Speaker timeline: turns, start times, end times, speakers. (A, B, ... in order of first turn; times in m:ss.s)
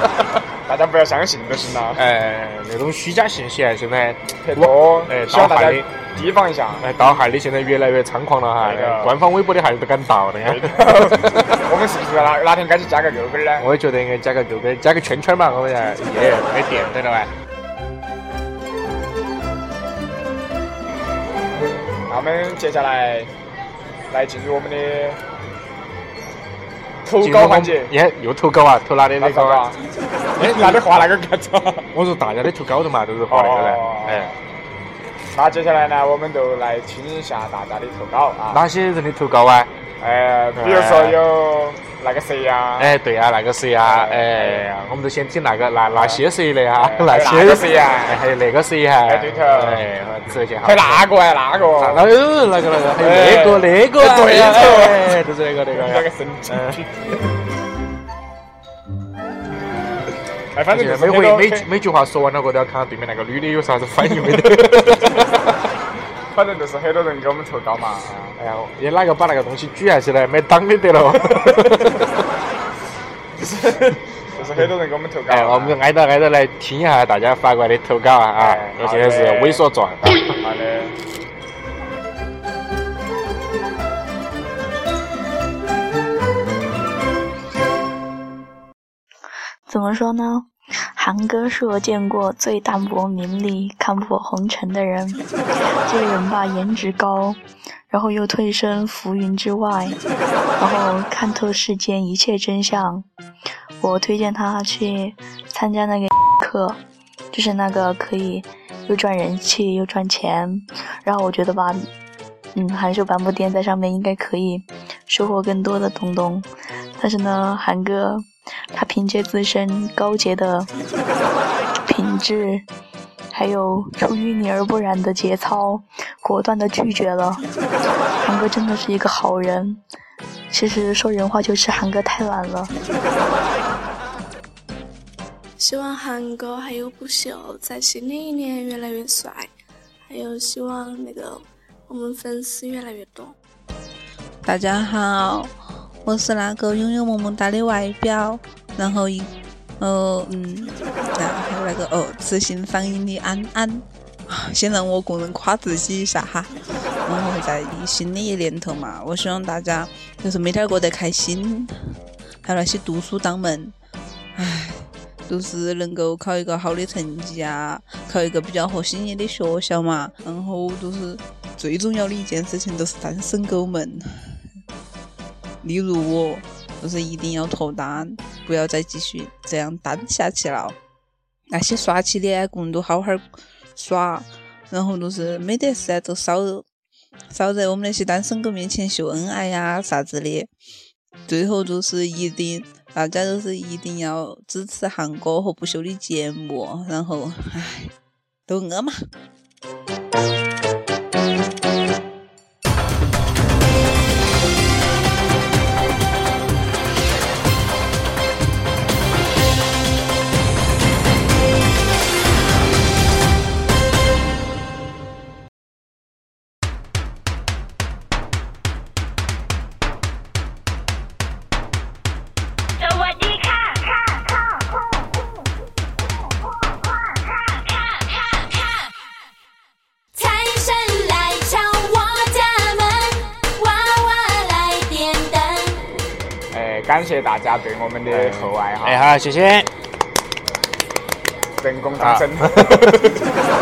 0:00.7-0:02.0 A
0:02.0-0:05.9 B
0:04.4-0:06.9 A
0:06.8-0:11.6 B
0:08.6-0:09.1 A
0:10.4-0:13.6 A
0:13.6-0:17.3 B
0:16.1-0:17.0 A
0:22.1-0:23.3 A
0:24.1-0:25.2 A
0:27.0-0:27.9 A
0:27.2-0:29.6 B
0:29.2-0:29.8 A
0:30.4-0:31.8 A
0:30.4-0:31.0 B
0:31.9-0:34.3 B
0:33.3-0:34.3 A
0:35.3-0:38.6 A
0:38.5-0:39.7 B
0:40.0-0:42.9 A
0:40.6-0:41.2 B
0:42.8-0:51.0 B
0:43.8-0:44.6 A
0:46.0-0:48.2 A
0:49.0-0:49.8 A
0:50.6-0:52.1 A
0:51.8-0:56.8 B
0:53.0-0:57.1 A
1:00.5-1:01.7 A
1:00.7-1:05.4 B
1:06.3-1:08.4 A
1:08.4-1:12.1 B
1:13.4-1:15.8 A
1:15.3-1:20.3 B
1:18.4-1:19.6 A
1:20.4-1:20.9 A
1:29.7-1:35.2 C
1:35.8-1:40.0 C
1:40.6-1:43.1 C
1:43.8-1:46.8 C
1:47.3-1:51.9 C
1:52.5-2:00.7 C
2:01.9-2:02.6 C
2:03.3-2:07.4 C
2:08.2-2:09.8 C
2:10.5-2:12.7 C
2:15.6-2:19.5 D
2:20.1-2:23.3 D
2:24.4-2:36.5 E
2:37.0-2:41.7 E
2:42.4-2:43.7 E
2:44.3-2:54.4 E
2:55.6-3:00.8 E
3:01.5-3:06.6 E
3:07.3-3:10.5 E
3:11.3-3:17.9 E
3:18.5-3:19.0 E
3:42.8-3:45.0 F
3:47.4-3:48.8 F
3:50.1-3:55.8 F
3:56.5-3:59.0 A
3:58.1-3:59.7 B
4:01.6-4:03.0 A
4:02.0-4:03.1 B